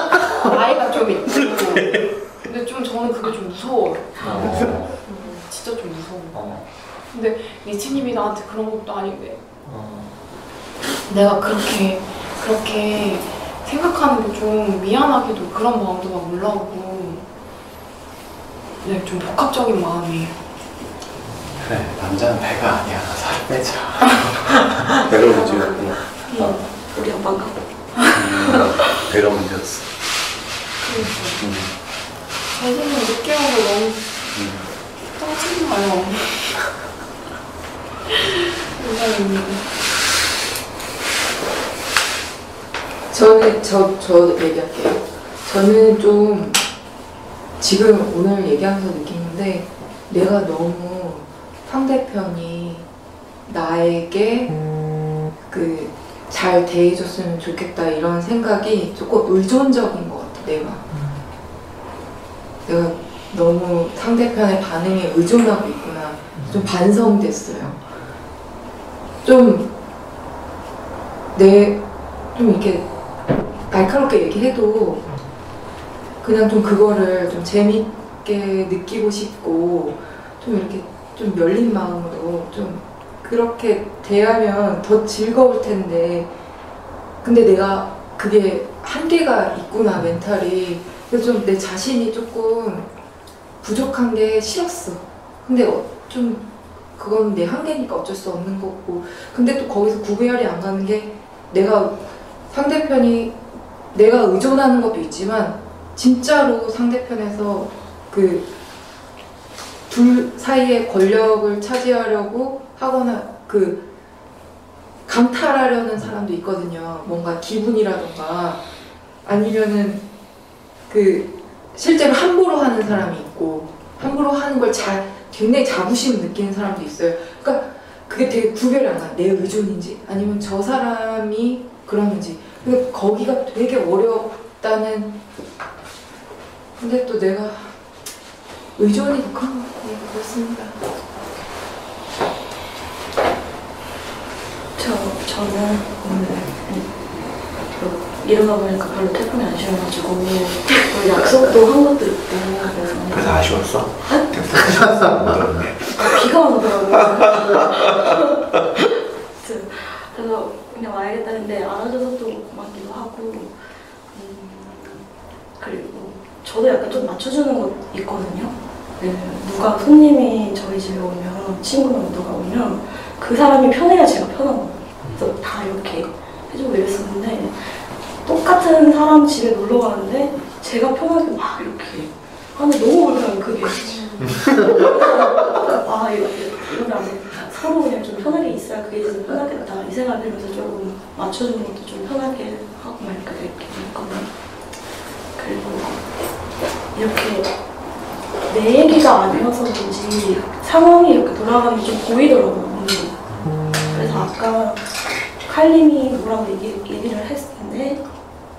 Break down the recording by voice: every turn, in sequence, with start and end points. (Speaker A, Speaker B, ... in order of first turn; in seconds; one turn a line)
Speaker A: 0.4-9.4
Speaker B: 1.3-2.1
Speaker C: 4.2-5.0
Speaker C: 6.3-6.7
Speaker C: 9.7-10.1
Speaker A: 11.1-17.2
Speaker A: 18.8-20.4
Speaker D: 21.6-24.9
Speaker B: 25.0-26.2
Speaker A: 25.3-25.9
Speaker E: 26.3-28.9
Speaker B: 28.2-30.0
Speaker A: 30.8-31.4
Speaker C: 31.4-31.7
Speaker A: 32.5-34.1
Speaker B: 34.3-34.7
Speaker A: 35.1-36.6
Speaker A: 38.7-39.7
Speaker F: 43.1-46.6
Speaker F: 47.6-52.9
Speaker F: 53.5-54.6
Speaker F: 55.5-61.0
Speaker F: 62.7-67.8
Speaker C: 66.3-66.7
Speaker F: 69.2-69.7
Speaker F: 71.3-71.8
Speaker F: 72.3-75.1
Speaker F: 76.2-86.3
Speaker F: 87.2-92.9
Speaker F: 93.6-96.5
Speaker F: 97.0-103.3
Speaker F: 103.9-108.5
Speaker F: 109.9-113.9
Speaker F: 115.1-118.7
Speaker F: 119.2-120.0
Speaker F: 120.9-135.2
Speaker F: 136.8-137.8
Speaker F: 138.8-140.8
Speaker E: 144.8-153.4
Speaker G: 153.1-156.1
Speaker E: 154.1-154.9
Speaker E: 155.9-158.2
Speaker E: 159.4-194.3
Speaker C: 175.0-175.3
Speaker E: 195.4-196.1
Speaker E: 196.9-197.5
Speaker E: 198.5-203.2
Speaker E: 203.8-208.0